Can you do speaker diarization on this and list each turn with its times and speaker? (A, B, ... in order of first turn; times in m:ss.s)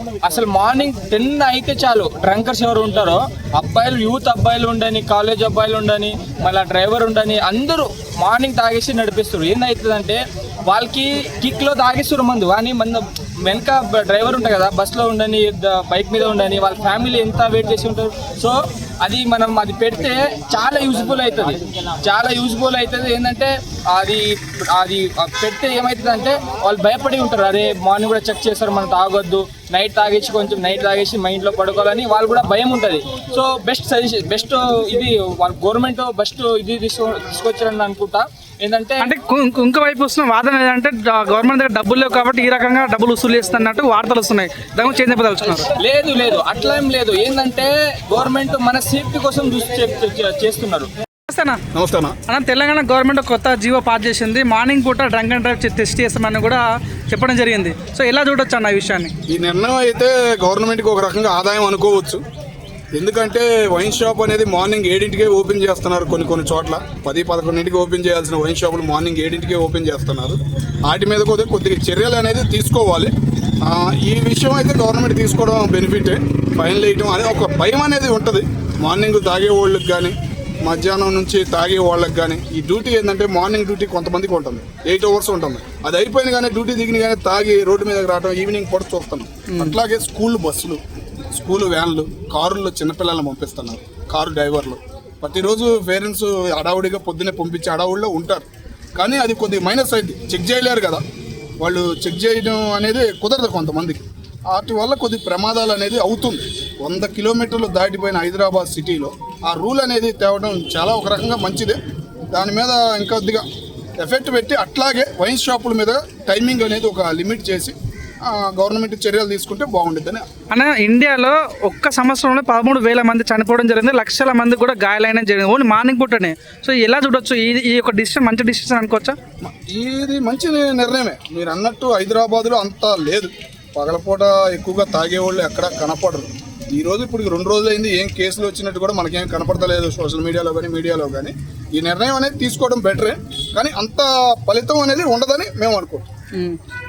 0:00.2-0:39.1 A
0:39.0-0:45.7 B
0:45.8-0:50.9 A
0:51.3-0:51.6 B
0:51.7-0:52.2 C
0:52.3-0:59.1 B
0:59.3-1:02.2 C
1:02.9-1:13.1 C
1:13.6-1:30.8 C
1:31.3-1:41.0 C
1:41.6-1:51.8 C
1:52.3-1:53.4 C
1:54.0-1:57.7 C
1:58.2-2:00.2 C
2:00.5-2:09.2 B
2:09.4-2:26.1 C